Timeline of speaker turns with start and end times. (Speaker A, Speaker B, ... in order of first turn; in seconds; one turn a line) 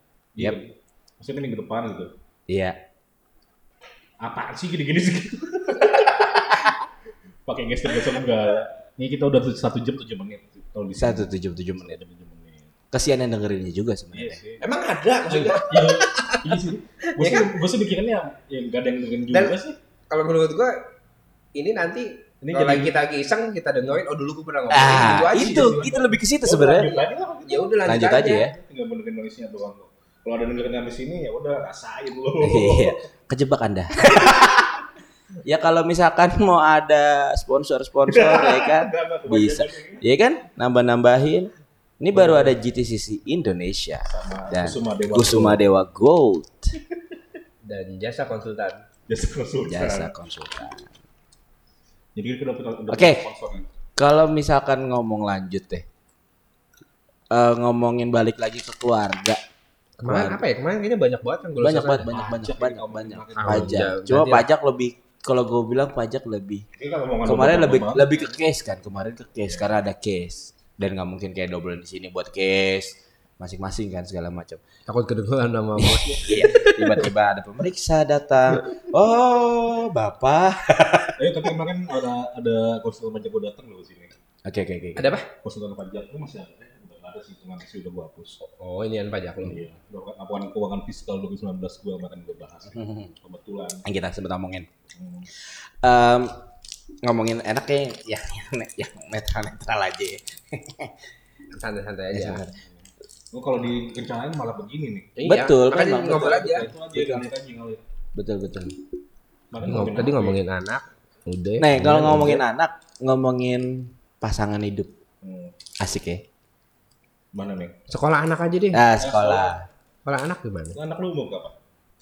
Speaker A: 0.3-2.1
Speaker B: 2.5-2.8
Speaker A: 4.2-6.7
Speaker A: 7.5-12.7
Speaker B: 11.0-12.0
Speaker B: 12.9-14.4
Speaker A: 14.1-14.6
Speaker C: 14.6-16.6
Speaker A: 15.3-19.8
Speaker C: 17.1-17.5
Speaker C: 19.3-19.6
Speaker C: 20.1-20.8
Speaker C: 21.5-25.9
Speaker A: 22.4-23.0
Speaker B: 24.7-26.9
Speaker A: 24.9-32.9
Speaker C: 27.4-28.4
Speaker B: 27.9-28.5
Speaker B: 32.4-34.8
Speaker B: 35.5-46.7
Speaker A: 38.1-40.0
Speaker A: 42.1-42.6
Speaker A: 44.0-45.6
Speaker C: 47.6-48.8
Speaker A: 49.1-50.1
Speaker B: 49.7-50.9
Speaker A: 52.1-53.7
Speaker B: 52.9-53.2
Speaker B: 54.0-55.8
Speaker B: 57.3-59.4
Speaker C: 60.0-62.1
Speaker B: 60.0-60.4
Speaker B: 61.6-66.6
Speaker A: 62.1-63.9
Speaker C: 63.4-64.5
Speaker A: 66.8-68.3
Speaker B: 67.2-74.6
Speaker C: 74.9-77.1
Speaker B: 75.8-81.2
Speaker A: 81.2-84.1
Speaker B: 84.4-85.1
Speaker C: 85.0-85.3
Speaker A: 85.4-88.4
Speaker C: 88.4-89.6
Speaker A: 89.4-93.8
Speaker B: 92.7-93.1
Speaker B: 93.8-94.7
Speaker A: 94.9-95.3
Speaker B: 95.5-96.4
Speaker B: 97.0-100.9
Speaker C: 101.5-102.4
Speaker B: 102.1-102.5
Speaker A: 102.4-105.2
Speaker C: 105.2-106.7
Speaker B: 105.2-107.2
Speaker A: 106.0-107.8
Speaker B: 108.1-108.8
Speaker A: 109.5-110.4
Speaker C: 109.6-112.4
Speaker B: 111.6-114.9
Speaker A: 115.2-115.6
Speaker B: 115.8-116.2
Speaker A: 117.3-117.8
Speaker C: 117.9-118.8
Speaker B: 118.7-119.7
Speaker A: 119.0-119.6
Speaker C: 120.0-120.8
Speaker A: 120.7-121.6